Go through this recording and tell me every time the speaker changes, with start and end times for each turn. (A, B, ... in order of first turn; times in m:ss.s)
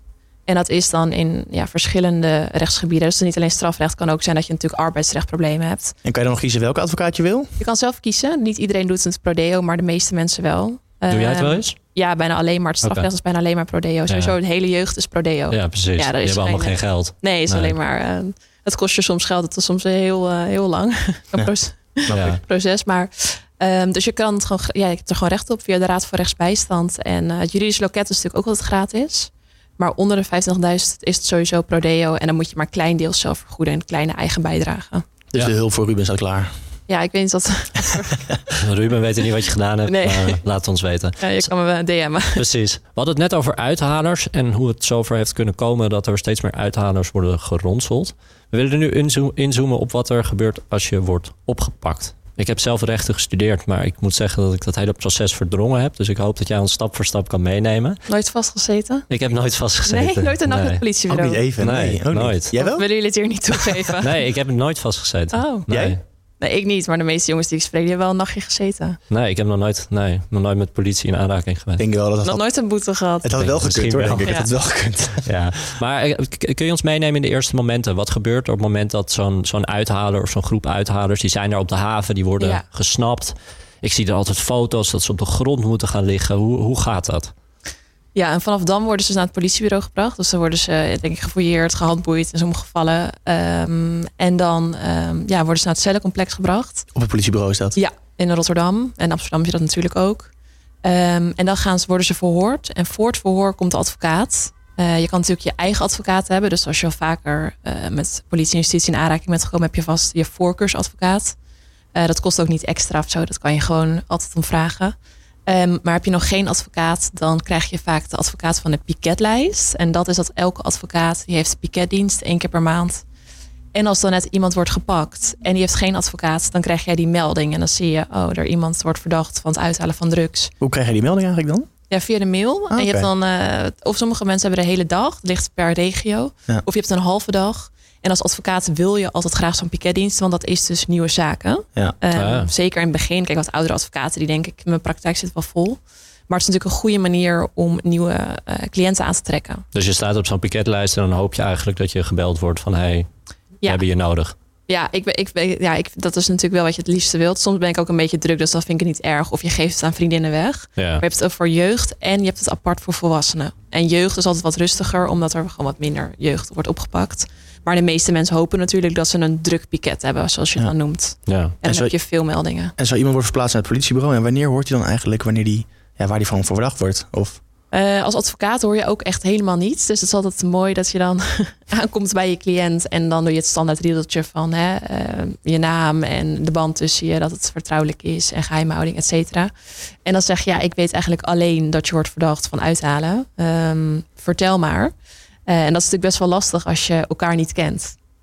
0:00.5-0:06.0 A
0:06.0-0:07.5 B
0:07.6-0:35.1 A
0:11.1-0:11.8 C
0:12.8-0:13.1 C
0:14.1-0:14.4 C
0:15.5-0:17.8 C
0:22.1-0:22.4 C
0:35.3-0:36.5 B
0:36.9-0:38.6 A
0:38.5-0:41.5 C
0:39.9-0:40.4 A
0:41.2-0:42.4 A
0:42.4-0:58.0 C
0:58.1-0:59.1 A
0:59.1-1:00.8 C
0:59.8-1:01.4 A
1:01.1-1:02.8 B
1:01.6-1:02.5 C
1:02.5-1:04.2 A
1:04.0-1:06.0 C
1:05.3-1:05.7 A
1:05.7-1:06.0 B
1:06.4-1:09.0 A
1:09.1-1:11.8 C
1:11.8-1:12.4 B
1:12.2-1:13.4 A
1:13.2-1:15.3 B
1:13.4-1:14.3 C
1:14.2-1:14.5 A
1:15.2-1:27.3 C
1:28.2-1:36.9 A
1:37.0-1:37.8 B
1:37.8-1:40.3 A
1:40.8-1:51.4 A
1:51.9-1:55.0 A
1:55.5-2:03.0 A
2:03.7-2:10.5 A
2:10.6-2:11.7 B
2:11.9-2:29.6 A
2:12.7-2:13.1 B
2:22.1-2:22.5 C
2:29.7-2:33.1 C
2:33.6-2:34.4 C
2:34.7-2:52.7 A
2:40.8-2:41.0 C
2:51.3-2:51.6 C
2:51.6-2:51.9 B
2:52.8-2:57.4 B
2:57.7-3:09.5 A
3:10.0-3:14.9 A
3:15.5-3:18.0 A